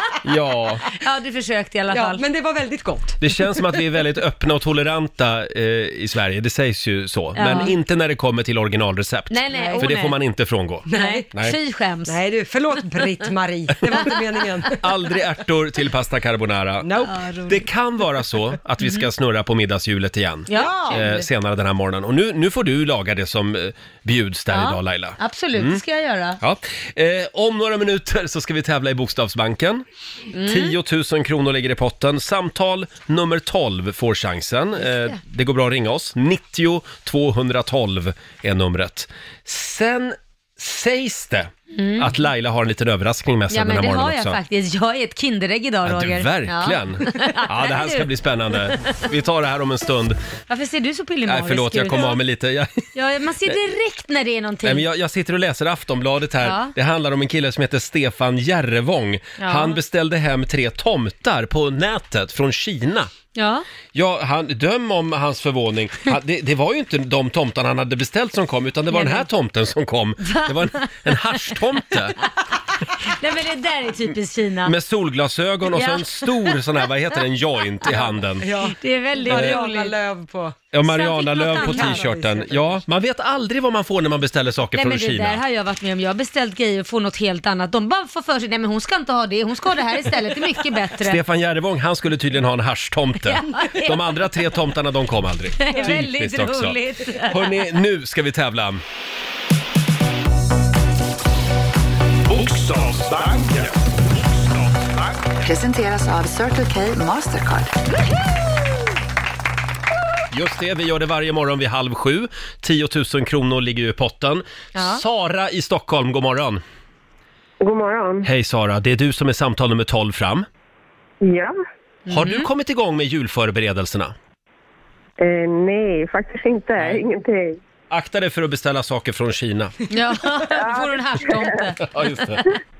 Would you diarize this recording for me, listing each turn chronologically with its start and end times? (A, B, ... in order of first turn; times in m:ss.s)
0:00.2-0:00.8 A
0:00.9-0:02.2 B
0:01.9-0:03.7 C
0:03.2-0:11.6 A
0:07.4-0:07.7 B
0:09.3-0:10.2 B
0:09.5-0:09.9 C
0:10.8-0:11.3 C
0:10.9-0:12.2 B
0:12.0-0:14.8 C
0:13.9-0:14.1 B
0:14.7-0:16.9 A
0:16.8-0:17.4 C
0:17.0-0:17.6 B
0:17.5-0:25.8 A
0:18.8-0:19.1 B
0:20.5-0:21.0 B
0:20.5-0:21.2 C
0:24.5-0:26.4 B
0:26.4-0:29.8 A
0:30.3-0:30.8 B
0:30.4-0:44.4 A
0:41.7-0:42.2 B
0:43.5-0:48.9 B
0:45.8-0:50.2 A
0:50.5-0:52.2 B
0:51.3-0:52.9 A
0:52.9-0:54.8 B
0:54.6-1:03.1 A
0:56.4-0:56.7 B
0:59.4-0:59.8 B
1:03.3-1:03.6 B
1:03.9-1:12.2 A
1:08.9-1:09.3 B
1:10.2-1:12.3 B
1:13.0-1:14.7 B
1:14.6-1:18.5 A
1:15.7-1:16.9 B
1:17.8-1:19.9 B
1:18.4-1:20.6 C
1:19.3-1:19.6 A
1:20.7-1:25.4 A
1:20.8-1:22.1 B
1:21.4-1:22.8 C
1:24.7-1:31.2 B
1:31.0-1:38.8 A
1:33.2-1:34.3 B
1:35.6-1:37.7 B
1:42.3-1:45.2 D
1:45.4-1:47.8 E
1:50.3-1:56.6 A
1:54.7-1:55.0 B
1:57.6-1:58.3 F
1:58.2-2:00.4 A
2:01.2-2:01.5 F
2:02.0-2:02.5 B
2:02.1-2:04.1 A
2:05.2-2:07.6 F
2:07.9-2:09.8 A
2:09.9-2:11.9 B
2:10.5-2:11.6 F
2:11.8-2:12.5 A